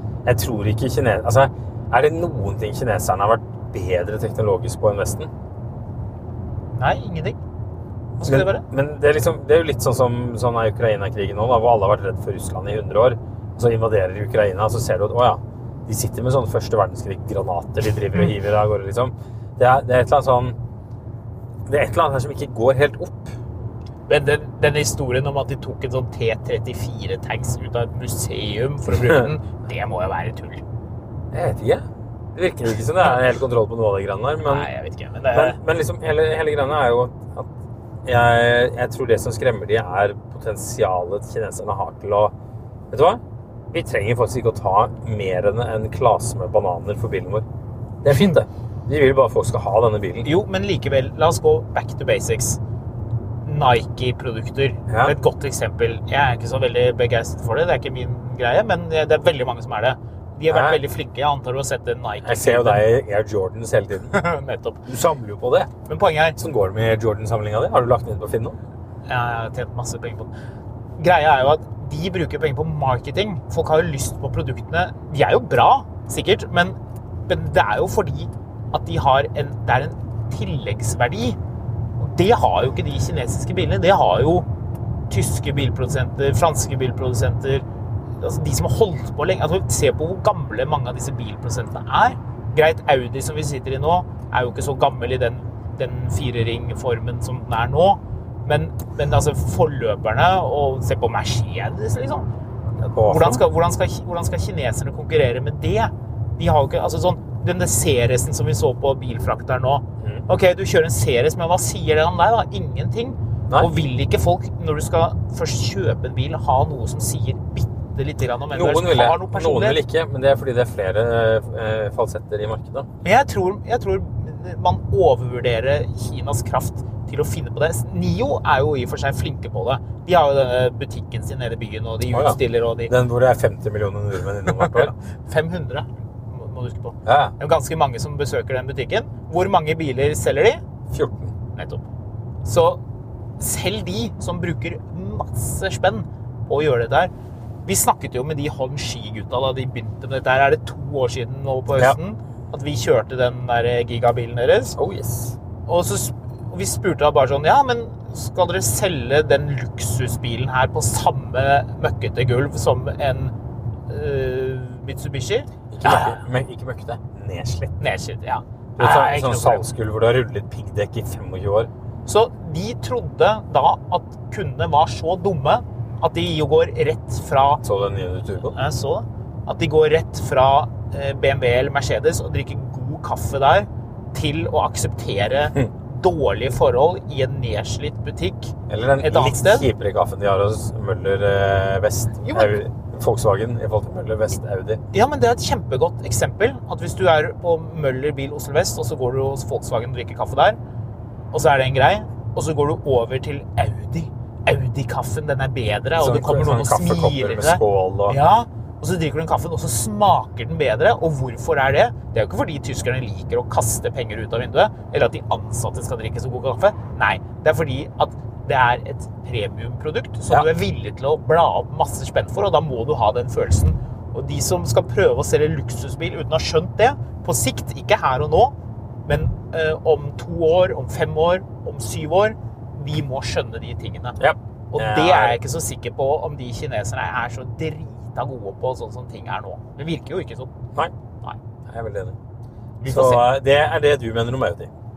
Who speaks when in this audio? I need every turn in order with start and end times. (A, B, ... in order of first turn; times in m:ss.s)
0:00.2-0:05.3 A
0:06.7-0:07.4 B
0:08.2-0:20.6 A
0:08.2-0:08.6 B
0:21.7-0:23.4 A
0:24.1-0:30.6 B
0:28.9-0:29.3 A
0:31.3-0:34.7 A
0:34.4-0:35.6 B
0:35.3-0:37.5 A
0:38.0-0:42.3 A
0:42.9-0:43.2 A
0:43.7-0:47.4 A
0:48.0-0:50.3 A
0:50.2-0:52.6 B
0:53.4-1:02.9 B
0:54.9-0:55.2 A
1:00.5-1:00.8 A
1:02.2-1:04.2 A
1:04.1-1:04.8 B
1:04.8-1:05.7 A
1:05.8-1:06.4 B
1:06.4-1:08.6 A
1:09.1-1:10.3 B
1:11.0-1:21.4 B
1:22.0-1:24.5 B
1:25.1-1:27.6 B
1:28.2-1:42.3 B
1:42.8-1:59.8 B
1:43.0-1:43.4 A
1:50.0-1:50.2 A
1:58.5-2:02.9 A
2:03.0-2:12.9 B
2:12.1-2:14.9 A
2:14.4-2:20.6 B
2:17.0-2:17.3 A
2:20.9-2:21.3 A
2:21.6-2:21.8 B
2:22.4-2:22.8 B
2:23.4-2:27.1 B
2:27.6-2:34.8 B
2:34.8-2:35.4 A
2:35.6-2:43.3 B
2:43.9-2:46.2 B
2:45.7-2:47.8 A
2:47.8-2:49.6 B
2:48.8-2:51.7 A
2:52.0-2:57.6 B
2:57.6-2:58.6 A
2:58.5-3:09.7 B
3:08.7-3:14.8 A
3:12.2-3:12.5 B
3:14.9-3:20.6 B
3:21.3-3:48.5 B
3:26.0-3:28.2 A
3:49.0-3:54.2 B
3:54.2-3:55.4 A
3:54.7-4:00.5 B
4:01.6-4:02.2 A
4:02.8-4:03.2 B
4:02.9-4:04.7 A